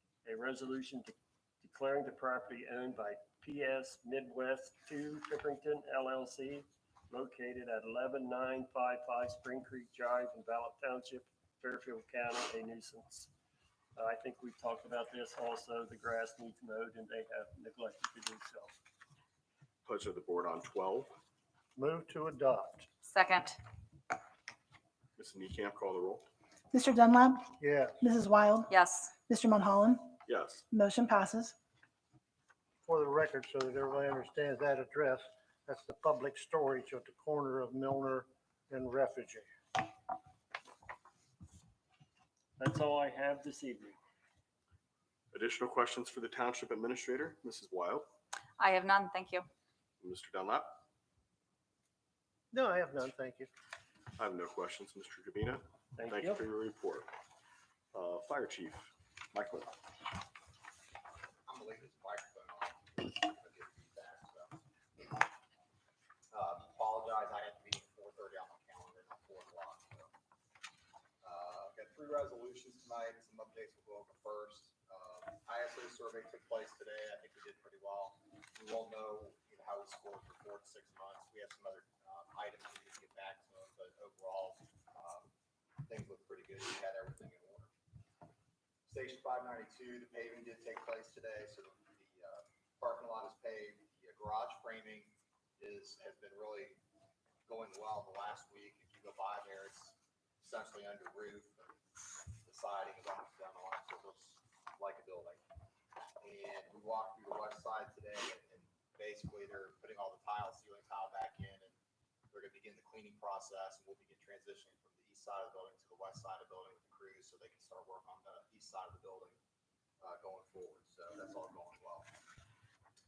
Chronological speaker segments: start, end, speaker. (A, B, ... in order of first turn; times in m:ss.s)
0:00.2-0:13.3 A
0:14.0-0:18.8 A
0:19.8-0:21.1 B
0:21.8-0:22.8 C
0:23.0-0:23.6 D
0:25.2-0:26.2 B
0:26.7-0:28.7 E
0:27.6-0:28.0 C
0:28.7-0:29.2 D
0:29.3-0:31.5 E
0:30.2-0:30.6 B
0:32.8-0:39.5 C
0:42.6-0:44.0 A
0:45.3-0:48.1 B
0:48.6-0:49.5 D
0:50.0-0:50.8 B
0:52.5-0:53.5 C
0:54.2-0:57.1 B
0:56.0-0:56.4 A
0:57.9-0:59.8 B
1:01.4-1:05.1 F
1:06.3-1:10.1 F
1:11.2-1:25.3 F
1:25.8-1:27.7 F
1:28.9-1:36.8 F
1:37.4-1:41.7 F
1:42.4-1:45.4 F
1:46.2-1:51.8 F
1:52.3-1:59.4 F
2:00.0-2:02.1 F